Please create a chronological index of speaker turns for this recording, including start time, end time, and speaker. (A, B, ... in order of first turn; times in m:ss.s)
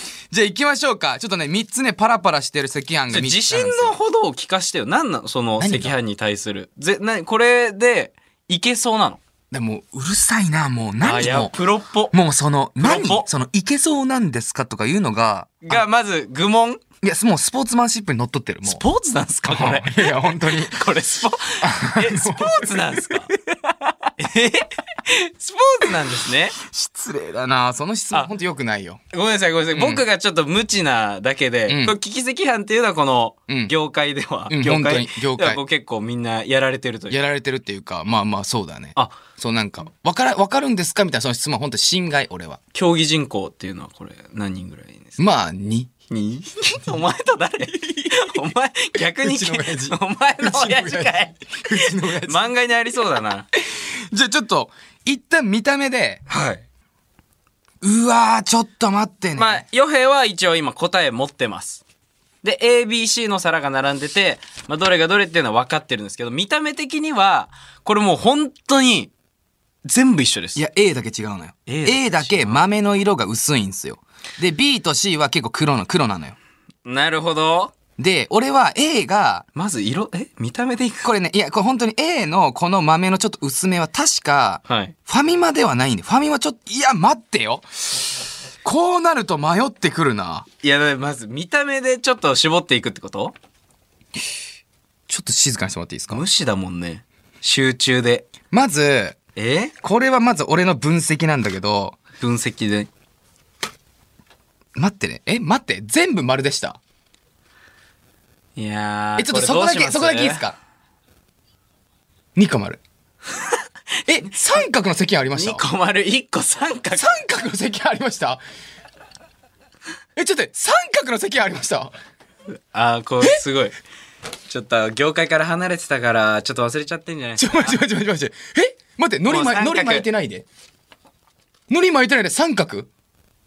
0:00.3-0:04.0 A
0:03.1-0:09.2 B
0:05.6-0:05.9 A
0:09.5-0:11.5 A
0:11.0-0:12.1 B
0:12.1-0:15.8 A
0:12.8-0:13.2 B
0:15.6-0:16.8 B
0:17.0-0:18.8 A
0:18.6-0:26.6 B
0:19.4-0:20.8 A
0:21.6-0:23.3 A
0:26.6-0:29.0 A
0:29.1-0:37.2 B
0:29.7-0:30.0 A
0:31.7-0:32.0 A
0:33.5-0:33.7 A
0:34.5-0:35.6 A
0:37.1-0:42.6 A
0:42.7-0:45.2 B
0:45.2-0:45.9 A
0:46.1-0:53.5 B
0:47.7-0:48.4 A
0:49.2-0:52.5 A
0:53.6-0:56.2 A
0:56.3-0:56.6 B
0:57.8-0:59.6 A
0:59.4-1:01.8 B
1:02.4-1:09.1 B
1:09.8-1:10.6 B
1:10.5-1:16.4 A
1:11.7-1:12.6 B
1:16.8-1:17.7 B
1:18.0-1:19.4 A
1:19.5-1:21.1 B
1:21.0-1:30.4 A
1:24.7-1:24.9 B
1:30.6-1:33.3 B
1:35.1-1:36.2 A
1:36.1-1:38.3 B
1:38.5-1:39.2 A
1:39.4-1:39.7 B
1:39.8-1:42.0 A
1:42.2-1:42.9 B
1:44.8-1:46.8 A
1:48.6-1:50.4 B
1:49.2-1:50.6 A
1:52.4-1:52.8 A
1:54.0-1:55.6 A
1:55.3-1:57.2 B
1:56.9-1:58.4 A
2:00.2-2:01.9 A
2:02.5-2:03.7 B
2:04.5-2:07.8 B
2:07.4-2:10.4 A
2:09.3-2:10.0 B
2:11.7-2:12.9 A